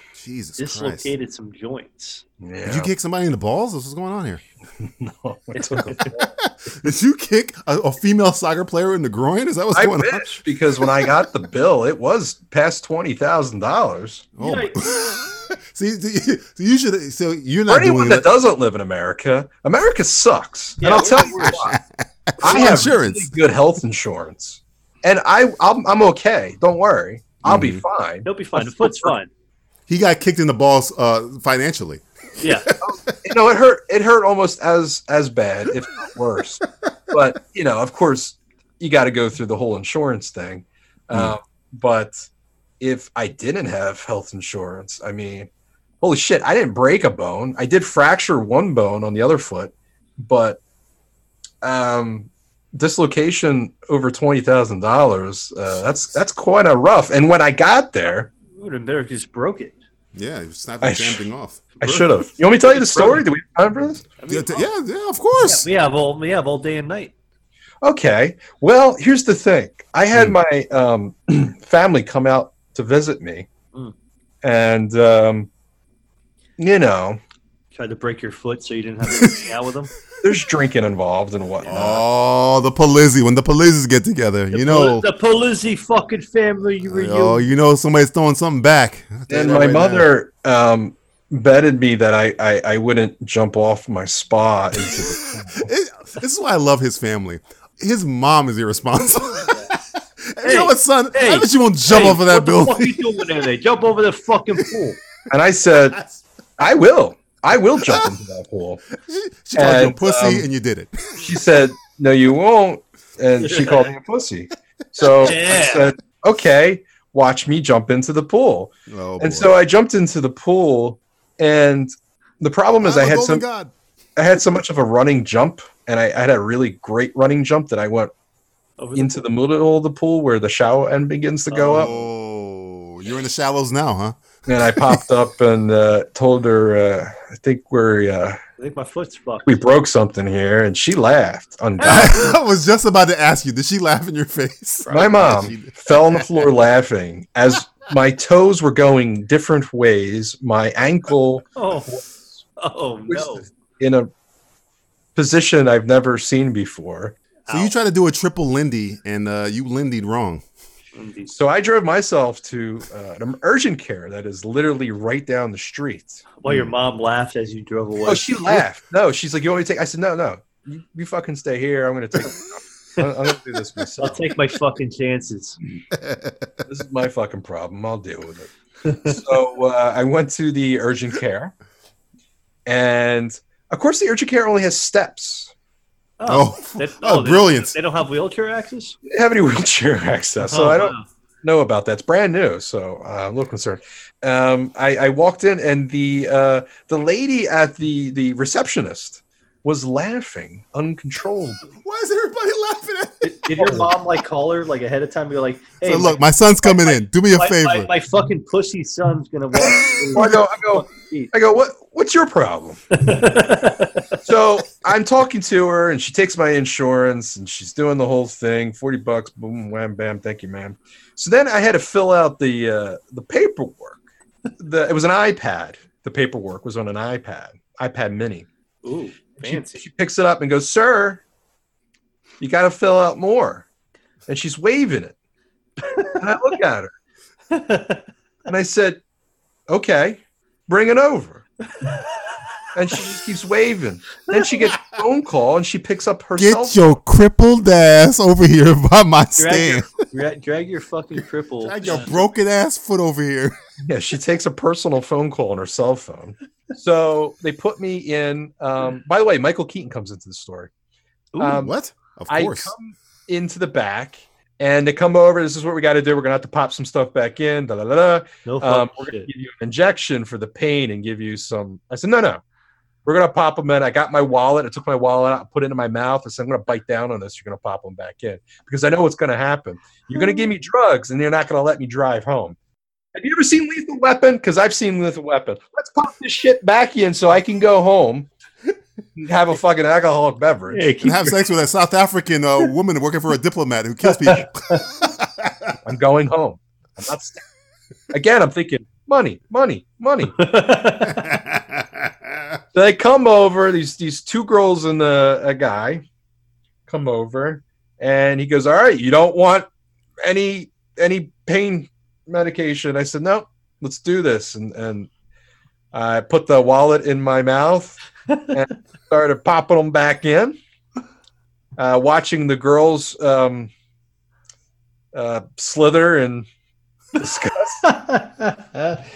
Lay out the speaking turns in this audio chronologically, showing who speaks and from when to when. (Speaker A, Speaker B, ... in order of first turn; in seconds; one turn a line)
Speaker A: 0.1-1.1
Speaker B: 0.6-2.2
Speaker C: 2.4-2.9
Speaker A: 2.6-4.4
Speaker C: 4.8-6.2
Speaker B: 5.5-6.1
Speaker A: 6.4-11.1
Speaker C: 9.7-14.3
Speaker A: 14.4-18.3
Speaker B: 14.4-14.9
Speaker C: 17.7-21.8
Speaker B: 20.8-21.6
Speaker A: 20.9-23.3
Speaker C: 22.4-29.1
Speaker A: 27.4-27.8
Speaker B: 28.2-29.3
Speaker A: 29.9-32.9
Speaker B: 32.4-32.7
Speaker C: 32.8-42.3
Speaker A: 41.1-41.4
Speaker C: 42.8-45.5
Speaker C: 46.0-50.6
Speaker C: 51.6-58.3
Speaker B: 58.5-59.8
Speaker A: 60.1-61.6
Speaker C: 60.8-61.2
Speaker B: 61.8-63.2
Speaker C: 61.8-64.0
Speaker B: 64.2-64.7
Speaker A: 64.3-65.7
Speaker B: 65.4-67.1
Speaker C: 67.8-73.5
Speaker A: 70.1-70.4
Speaker C: 74.4-75.5
Speaker C: 76.6-77.2
Speaker B: 77.7-79.9
Speaker C: 80.2-82.0
Speaker A: 81.6-85.1
Speaker B: 84.5-87.5
Speaker A: 86.9-90.1
Speaker C: 89.3-95.7
Speaker A: 94.8-103.2
Speaker B: 100.4-105.0
Speaker C: 105.3-106.0
Speaker A: 105.9-106.2
Speaker C: 106.6-108.8
Speaker A: 109.0-111.3
Speaker C: 109.5-110.5
Speaker C: 111.2-123.4
Speaker B: 113.4-113.9
Speaker B: 115.2-115.9
Speaker A: 118.9-119.5
Speaker A: 122.8-123.7
Speaker C: 124.2-128.1
Speaker B: 128.8-129.2
Speaker C: 128.9-131.9
Speaker B: 131.5-132.1
Speaker A: 131.6-135.0
Speaker C: 134.5-138.4
Speaker B: 138.6-139.6
Speaker C: 139.4-142.3
Speaker B: 141.8-142.2
Speaker A: 141.8-146.5
Speaker C: 144.9-151.4
Speaker B: 151.6-152.0
Speaker B: 152.6-153.5
Speaker C: 153.1-154.1
Speaker C: 155.2-157.1
Speaker B: 157.5-157.7
Speaker A: 157.5-160.4
Speaker B: 160.9-161.3
Speaker C: 161.3-166.2
Speaker B: 166.4-168.4
Speaker A: 166.4-166.7
Speaker C: 168.1-174.3
Speaker B: 174.0-175.6
Speaker A: 175.9-176.3
Speaker C: 176.6-181.5
Speaker B: 178.8-179.2
Speaker C: 182.7-185.5
Speaker B: 186.2-188.9
Speaker A: 186.3-187.7
Speaker C: 189.1-201.6
Speaker B: 190.4-191.0
Speaker A: 201.8-203.8
Speaker B: 203.2-211.3
Speaker A: 205.8-207.9
Speaker C: 210.1-213.1
Speaker B: 212.9-214.2
Speaker C: 214.2-224.0
Speaker C: 224.6-228.5
Speaker B: 228.8-229.8
Speaker C: 229.4-231.2
Speaker C: 232.4-233.7
Speaker C: 234.3-235.1
Speaker B: 235.9-236.2
Speaker C: 236.1-236.9
Speaker B: 237.5-238.0
Speaker C: 238.5-239.0
Speaker C: 239.7-241.4
Speaker B: 241.8-242.1
Speaker C: 242.7-246.8
Speaker A: 246.4-249.9
Speaker B: 249.4-252.1
Speaker A: 251.2-253.6
Speaker C: 253.8-260.7
Speaker B: 261.3-261.6
Speaker C: 261.4-261.7
Speaker A: 261.5-262.7
Speaker C: 262.3-272.4
Speaker B: 268.4-269.3
Speaker C: 273.0-282.6
Speaker C: 283.1-288.3
Speaker C: 289.2-290.9
Speaker B: 290.7-291.4
Speaker A: 291.0-295.8
Speaker B: 294.1-294.8
Speaker C: 295.8-297.4
Speaker C: 298.1-300.4
Speaker B: 300.4-301.3
Speaker A: 301.0-302.6
Speaker C: 302.7-306.0
Speaker C: 306.9-309.7
Speaker C: 310.2-315.1
Speaker C: 315.9-320.6
Speaker C: 321.8-323.7
Speaker C: 325.1-326.5
Speaker C: 327.2-327.8
Speaker B: 327.8-329.0